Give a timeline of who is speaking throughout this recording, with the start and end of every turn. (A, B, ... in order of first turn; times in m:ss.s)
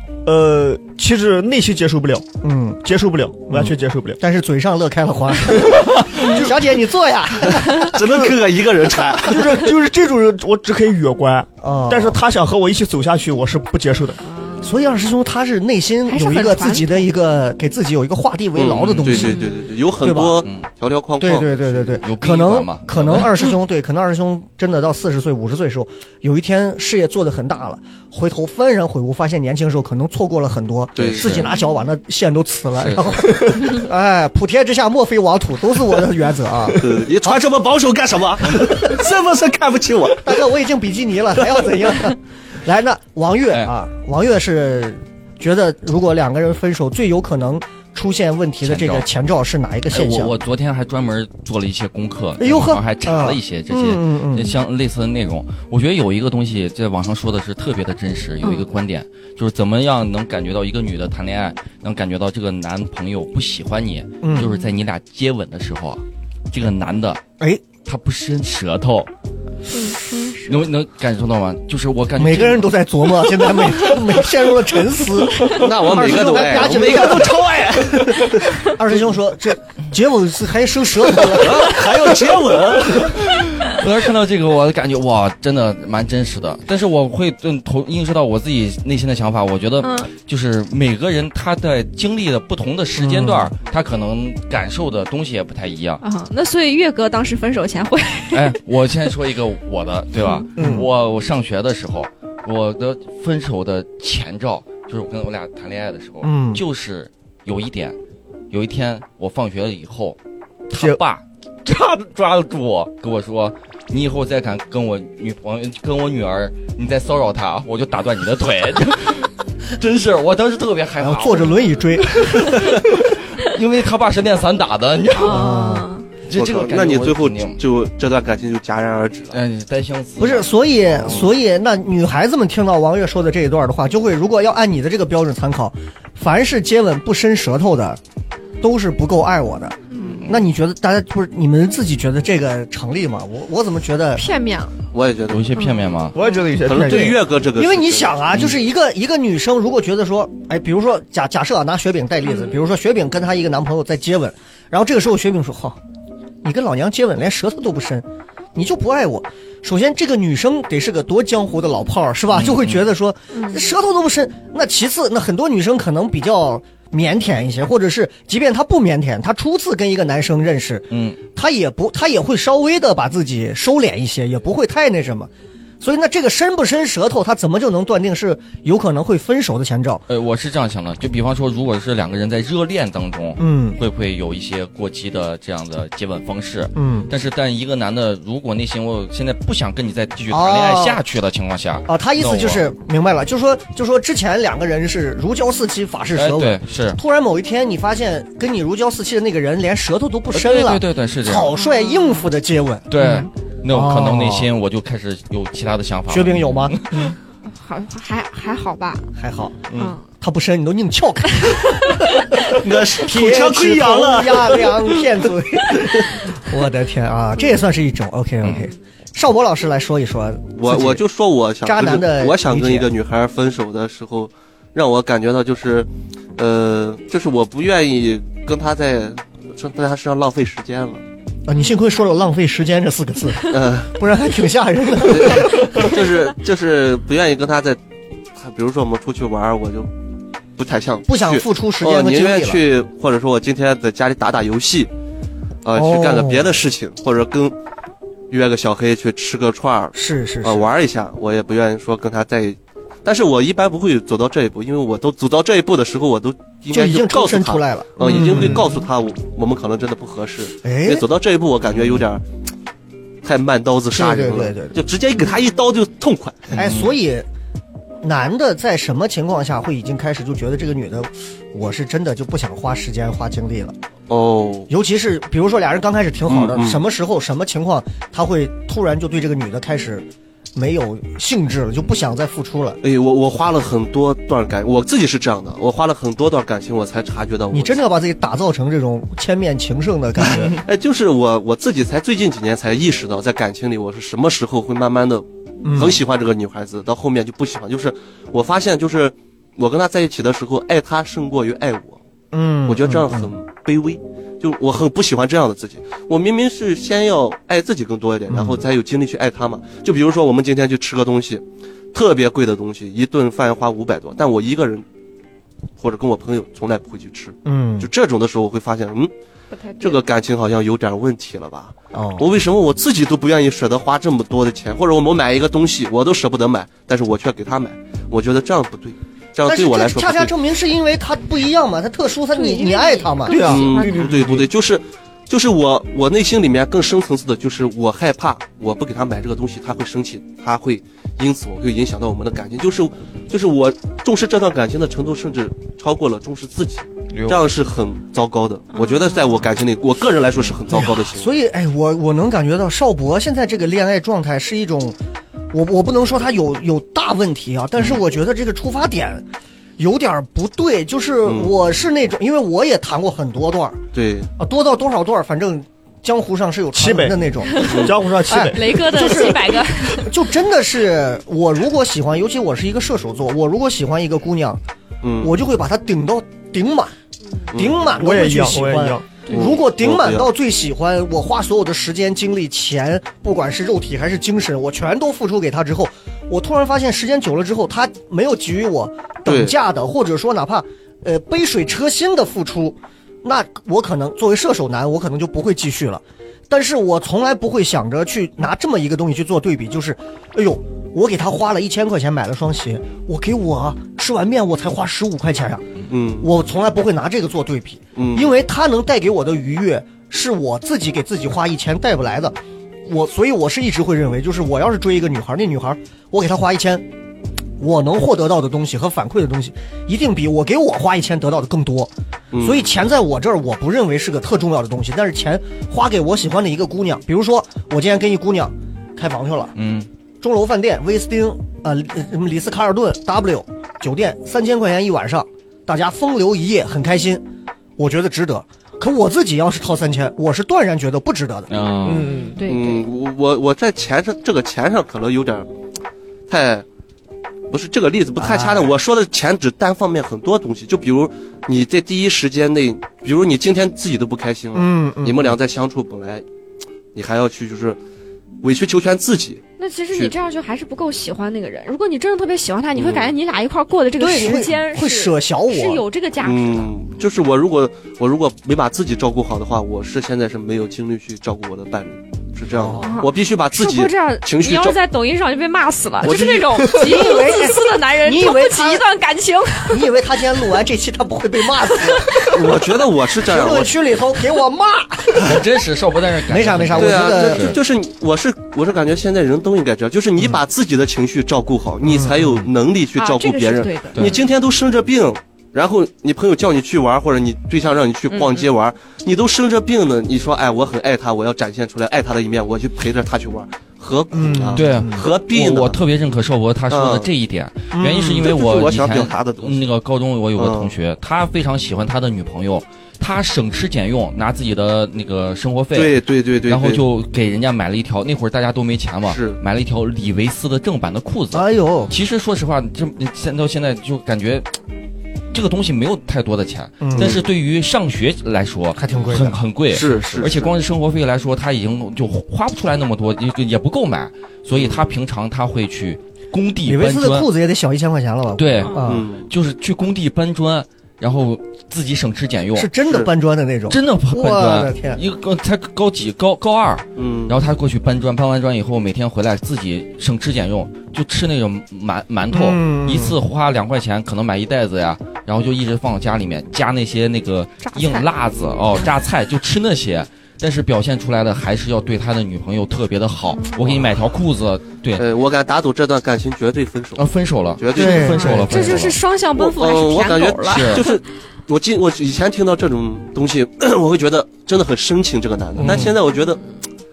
0:00.2-0:02.3 A
0:02.4-0:02.8 B
0:02.8-0:04.2 A
0:03.5-0:08.1 B
0:05.5-0:06.5 A
0:07.7-0:09.6 C
0:09.3-0:14.2 A
0:11.6-0:12.2 B
0:14.3-0:14.8 D
0:14.6-0:19.4 B
0:16.1-0:17.1 D
0:18.6-0:21.9 C
0:18.7-0:19.3 E
0:19.2-0:19.5 D
0:20.0-0:20.4 B
0:21.2-0:37.4 B
0:22.0-0:23.3 E
0:31.0-0:31.5 C
0:31.0-0:31.5 E
0:32.8-0:33.3 E
0:36.8-0:40.4 C
0:40.2-0:50.3 B
0:41.5-0:41.8 C
0:48.6-0:49.1 E
0:49.9-1:07.2 E
0:52.4-0:54.5 B
0:58.4-0:58.7 D
1:04.2-1:04.5 B
1:07.8-1:09.1 E
1:09.7-1:10.6 D
1:10.4-1:12.7 E
1:12.2-1:17.4 B
1:15.5-1:18.5 C
1:18.6-1:22.1 B
1:21.2-1:23.2 C
1:23.1-1:36.0 E
1:29.8-1:30.1 D
1:33.0-1:33.5 B
1:36.0-1:38.6 D
1:38.3-1:48.0 E
1:40.2-1:40.5 D
1:40.6-1:40.9 B
1:40.6-1:40.9 A
1:46.2-1:46.6 B
1:48.5-1:50.2 E
1:50.7-2:05.5 E
1:50.7-1:51.0 A
2:01.0-2:02.4 B
2:05.2-2:06.1 D
2:05.3-2:05.9 B
2:06.3-2:07.6 E
2:06.3-2:09.4 C
2:09.3-2:11.3 E
2:10.2-2:18.0 B
2:18.6-2:24.3 B
2:19.9-2:20.2 D
2:24.2-2:24.7 D
2:24.9-2:25.5 C
2:25.3-2:26.2 E
2:25.6-2:26.4 D
2:26.1-2:27.2 A
2:26.6-2:28.3 C
2:26.8-2:35.8 B
2:36.4-2:55.3 B
2:42.3-2:42.9 E
2:43.3-2:43.6 D
2:50.9-2:51.2 E
2:55.8-3:00.0 B
3:00.1-3:12.7 E
3:03.4-3:03.8 B
3:06.8-3:07.1 B
3:10.3-3:11.0 B
3:11.9-3:24.5 B
3:16.2-3:17.0 E
3:20.3-3:21.5 E
3:21.6-3:22.3 D
3:22.9-3:27.1 E
3:26.1-3:26.8 B
3:27.5-3:29.1 D
3:29.2-3:29.7 B
3:29.7-3:30.0 E
3:29.7-3:30.0 D
3:30.2-3:41.0 B
3:31.4-3:32.1 D
3:32.4-3:35.1 C
3:35.7-3:36.2 C
3:38.4-3:38.7 E
3:40.6-3:51.0 C
3:41.6-3:42.9 B
3:51.5-3:55.9 B
3:53.5-3:54.0 C
3:55.0-3:57.8 C
3:58.4-3:59.9 C
4:00.6-4:04.9 C
4:01.1-4:02.6 B
4:05.6-4:07.6 C
4:05.8-4:06.5 B
4:08.3-4:22.2 C
4:09.9-4:10.7 B
4:16.7-4:18.7 B
4:20.6-4:21.1 B
4:23.2-4:26.6 C
4:23.9-4:24.8 B
4:26.5-4:27.3 B
4:26.6-4:26.9 E
4:28.0-4:33.8 B
4:34.1-4:34.7 C
4:34.7-4:42.8 B
4:36.3-4:36.8 C
4:42.8-4:47.8 C
4:47.5-4:50.6 B
4:50.5-5:02.0 C
4:55.6-4:56.0 B
5:02.3-5:03.3 B
5:02.7-5:14.8 C
5:08.3-5:08.6 B
5:15.8-5:19.1 C
5:17.4-5:17.9 B
5:19.5-5:20.0 D
5:19.8-5:30.3 C
5:21.9-5:22.3 B
5:29.4-5:33.5 B
5:32.3-5:34.1 D
5:33.3-5:34.5 A
5:33.5-5:51.3 C
5:47.1-5:47.5 E
5:48.7-5:49.3 D
5:50.7-5:55.0 B
5:55.5-5:59.2 B
5:59.8-6:03.8 B
6:01.3-6:01.5 C
6:03.9-6:04.3 C
6:04.4-6:14.6 B
6:06.7-6:08.9 A
6:07.5-6:07.9 D
6:08.5-6:10.1 D
6:15.0-6:15.3 C
6:15.2-6:16.9 B
6:17.5-6:17.9 C
6:17.5-6:56.9 B
6:17.9-6:19.1 A
6:19.3-6:20.3 C
6:29.3-6:29.6 C
6:45.9-6:46.3 C
6:48.0-6:48.4 C
6:57.6-7:09.6 B
7:02.3-7:02.7 C
7:09.6-7:09.9 E
7:10.2-7:17.2 B
7:17.8-7:21.5 B
7:21.5-7:22.2 E
7:21.9-7:22.4 A
7:21.9-7:22.9 D
7:22.4-7:25.5 C
7:26.3-7:26.7 C
7:27.5-7:36.2 C
7:28.2-7:28.8 B
7:34.5-7:35.4 B
7:36.9-7:37.8 C
7:38.4-7:40.1 C
7:39.6-7:46.7 D
7:42.8-7:43.1 C
7:44.0-7:45.8 B
7:46.2-7:54.8 C
7:52.5-7:53.0 B
7:52.8-7:59.8 D
7:56.0-7:56.7 C
7:56.8-7:58.8 B
7:59.7-8:02.4 B
8:01.8-8:02.3 D
8:02.2-8:03.8 C
8:03.2-8:05.4 B
8:05.2-8:07.6 E
8:06.3-8:07.6 B
8:06.8-8:25.8 C
8:11.8-8:12.5 B
8:13.0-8:14.2 D
8:18.1-8:18.5 D
8:24.1-8:25.1 B
8:24.6-8:44.5 E
8:26.7-8:27.1 C
8:27.7-8:28.3 B
8:27.8-8:29.6 C
8:30.4-8:30.7 C
8:35.7-8:36.8 C
8:39.1-8:39.4 C
8:41.3-8:41.9 B
8:45.3-8:57.3 E
8:46.8-8:47.2 B
8:47.0-8:47.2 C
8:48.8-8:49.4 B
8:49.7-8:50.6 C
8:54.6-8:54.9 C
8:56.6-8:59.1 B
8:58.4-9:02.7 E
8:58.8-8:59.3 C
9:02.6-9:05.0 B
9:02.8-9:03.1 C
9:03.7-9:25.1 E
9:07.0-9:07.4 C
9:12.3-9:13.2 B
9:17.6-9:18.1 D
9:23.3-9:23.8 D
9:25.0-9:28.5 C
9:27.0-9:29.0 E
9:27.8-9:28.6 B
9:27.8-9:31.0 D
9:29.4-9:36.6 C
9:30.4-9:30.8 E
9:35.6-9:36.0 B